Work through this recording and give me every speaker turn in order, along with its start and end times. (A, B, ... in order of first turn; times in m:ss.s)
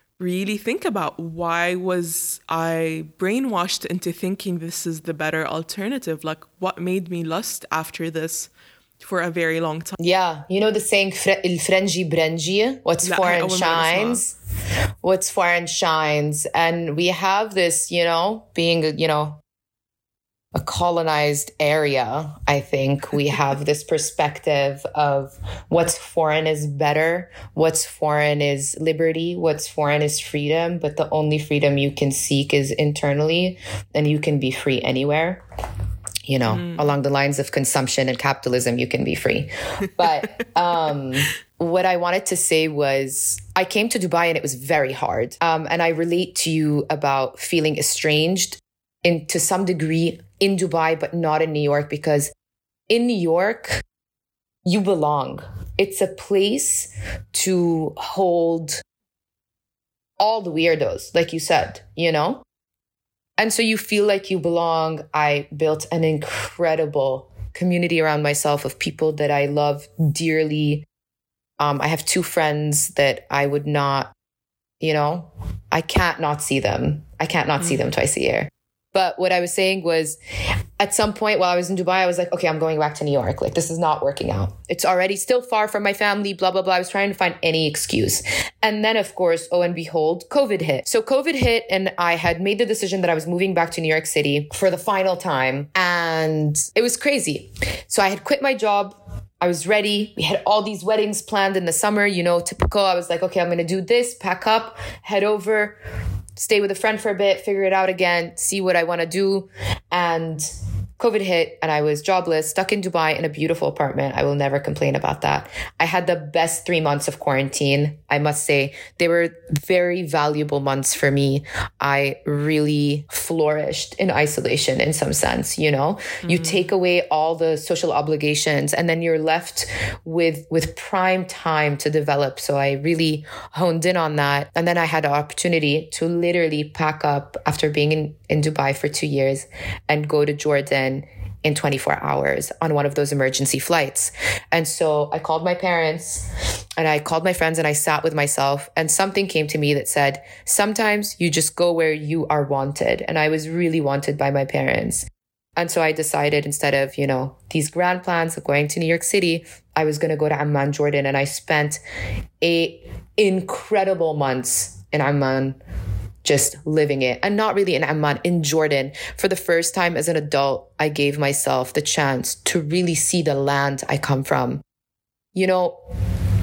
0:00.2-0:10.0 A
0:10.0-0:14.4 B
0:13.0-0:14.2 A
0:15.0-0:19.4 B
0:20.5-0:35.4 B
0:36.3-0:52.3 B
0:36.5-0:36.9 A
0:52.9-0:53.8 B
0:54.6-0:58.8 B
1:00.2-1:02.4 B
1:03.4-1:10.9 B
1:11.6-1:14.1 B
1:14.8-1:20.2 B
1:20.8-1:45.8 B
1:46.4-1:50.5 B
1:51.0-2:26.3 B
2:06.2-2:06.7 A
2:26.8-2:41.8 B
2:42.4-2:45.6 B
2:46.2-2:54.6 B
2:55.4-2:55.8 B